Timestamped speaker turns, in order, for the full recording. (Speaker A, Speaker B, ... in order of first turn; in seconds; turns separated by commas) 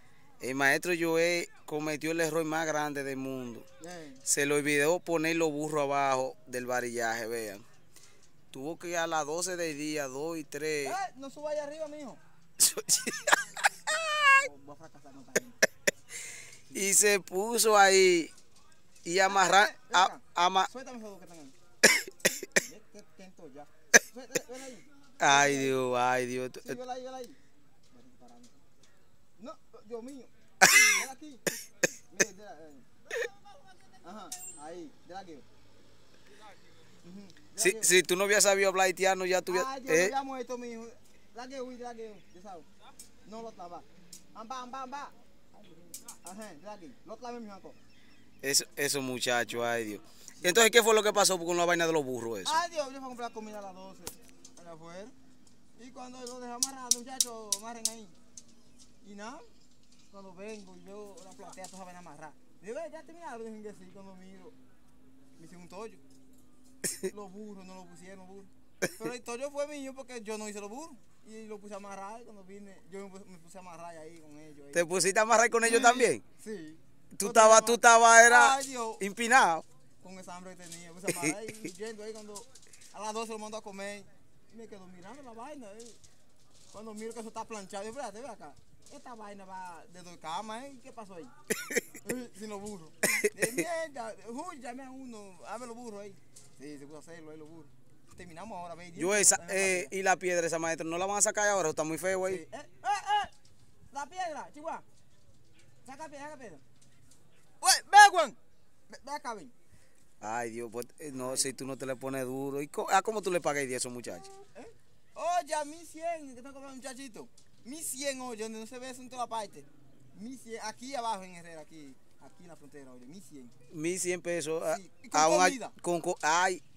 Speaker A: 0.4-3.6, Speaker B: 3.8-4.2, Speaker A: 4.3-7.6, Speaker A: 8.5-11.0, Speaker B: 10.8-12.2, Speaker A: 12.6-14.3, Speaker B: 14.2-15.6, Speaker A: 16.7-18.3, Speaker A: 19.1-20.7, Speaker B: 19.3-21.6, Speaker A: 21.9-22.1, Speaker B: 22.6-25.8, Speaker A: 25.2-26.8, Speaker B: 26.6-27.4, Speaker B: 27.9-28.6, Speaker B: 29.4-32.9, Speaker A: 30.7-30.9, Speaker B: 34.0-35.5, Speaker B: 37.0-37.9, Speaker A: 37.6-40.1, Speaker B: 39.5-42.7, Speaker B: 43.2-47.8, Speaker A: 48.4-52.6, Speaker B: 50.4-50.7, Speaker B: 52.5-55.1, Speaker B: 55.8-58.1, Speaker B: 59.0-59.5, Speaker B: 60.1-64.5, Speaker B: 65.4-66.0, Speaker B: 67.0-74.9, Speaker A: 74.7-76.2, Speaker B: 75.6-79.0, Speaker A: 77.1-79.7, Speaker B: 80.0-86.0, Speaker B: 86.7-91.3, Speaker B: 92.0-99.9, Speaker A: 99.0-102.4, Speaker B: 102.2-103.3, Speaker B: 103.9-104.8, Speaker B: 105.8-106.6, Speaker B: 107.6-108.4, Speaker B: 108.9-109.5, Speaker A: 110.2-114.3, Speaker B: 111.1-111.5, Speaker B: 114.3-123.5, Speaker A: 123.7-126.6, Speaker B: 124.7-125.8